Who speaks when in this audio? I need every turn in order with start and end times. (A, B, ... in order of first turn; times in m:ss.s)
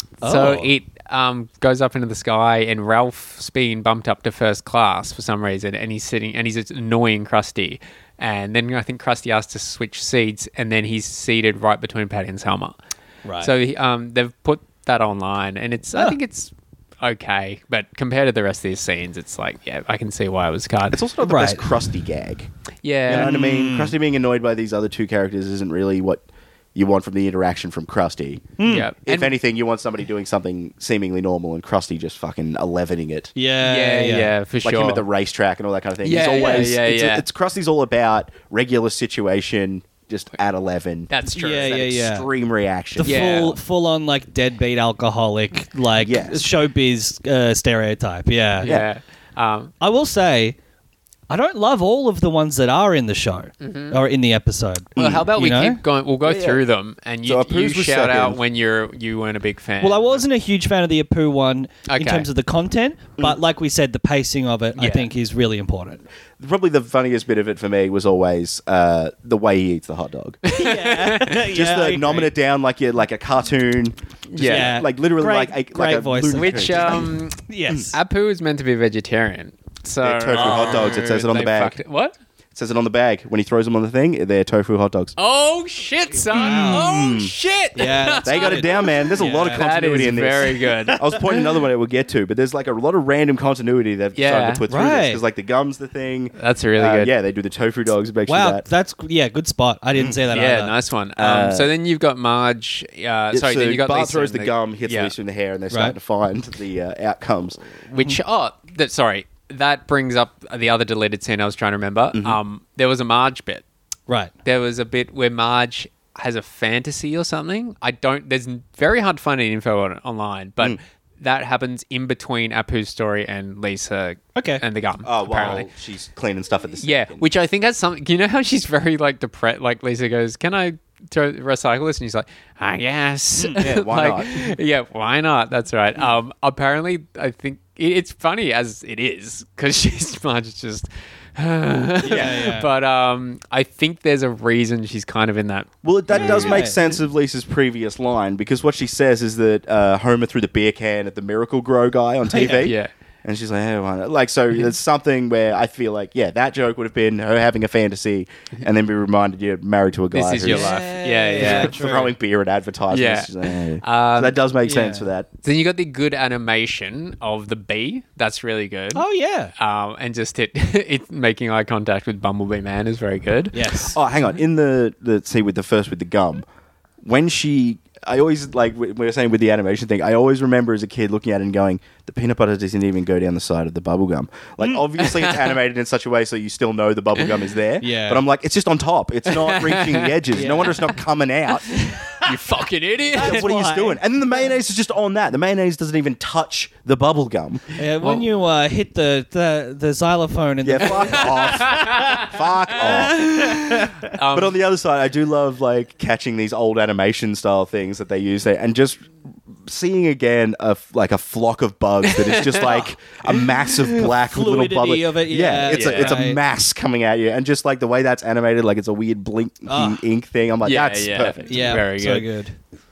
0:00.2-0:00.7 A
0:00.2-0:12.8 B
0:13.2-0:13.5 A
0:13.4-0:21.0 B
0:20.9-0:22.5 C
0:21.2-0:21.6 A
0:22.8-0:23.3 B
0:23.1-0:33.3 C
0:23.1-0:23.9 A
0:28.6-0:28.9 A
0:28.6-0:29.3 B
0:33.4-0:34.3 A
0:33.6-0:35.0 B
0:34.6-0:41.1 C
0:36.0-0:37.2 B
0:36.3-0:36.7 A
0:41.1-0:41.9 B
0:41.3-0:42.3 A
0:41.6-0:43.4 C
0:43.0-0:48.7 A
0:43.0-0:43.6 B
0:46.0-0:46.5 C
0:48.6-0:49.7 B
0:49.8-0:50.6 A
0:51.3-0:55.8 A
0:53.6-0:54.0 B
0:55.0-0:55.3 C
0:55.0-1:00.2 B
0:56.2-0:56.6 C
0:57.2-0:58.4 C
0:59.8-1:06.0 A
1:01.9-1:02.3 B
1:04.8-1:05.1 B
1:06.4-1:10.4 C
1:10.4-1:11.4 B
1:10.5-1:12.3 A
1:11.4-1:17.1 C
1:14.3-1:14.8 B
1:14.4-1:18.0 A
1:16.3-1:17.4 B
1:17.9-1:22.2 B
1:20.0-1:21.8 C
1:20.3-1:21.0 A
1:22.6-1:25.1 C
1:25.2-1:31.2 B
1:26.3-1:26.9 A
1:26.4-1:27.3 C
1:27.8-1:29.6 A
1:28.2-1:38.6 C
1:30.9-1:31.2 A
1:34.2-1:34.6 B
1:34.7-1:35.2 A
1:36.4-1:37.1 B
1:38.3-1:40.7 A
1:40.3-1:45.1 B
1:41.2-1:41.7 C
1:43.3-1:47.6 C
1:47.9-1:53.6 B
1:52.1-1:52.4 C
1:54.4-2:05.7 B
2:04.4-2:04.6 A
2:05.0-2:07.3 C
2:06.8-2:26.6 B
2:13.4-2:14.5 C
2:22.0-2:22.7 A
2:25.8-2:40.8 C
2:26.1-2:26.8 A
2:32.3-2:32.7 A
2:32.4-2:32.9 B
2:40.1-2:41.8 B
2:40.4-2:42.1 A
2:41.4-2:45.3 C
2:42.9-2:44.4 B
2:44.7-2:45.1 A
2:45.4-2:49.0 B
2:48.9-2:49.5 A
2:49.6-2:53.8 B
2:53.5-2:54.0 A
2:53.9-2:56.5 C
2:57.0-3:11.8 C
3:05.0-3:05.5 B
3:07.8-3:08.2 A
3:09.3-3:11.0 B
3:10.3-3:10.8 A
3:11.7-3:13.5 B
3:12.0-3:12.3 A
3:13.1-3:14.0 A
3:13.1-3:17.6 C
3:17.8-3:24.1 A
3:18.0-3:18.3 B
3:20.6-3:23.4 C
3:21.0-3:24.6 B
3:24.3-3:29.1 C
3:29.6-3:41.6 C
3:32.0-3:34.1 B
3:34.2-3:36.4 A
3:35.7-3:36.2 B
3:39.7-3:40.0 A
3:40.6-3:42.3 B
3:41.5-3:42.6 A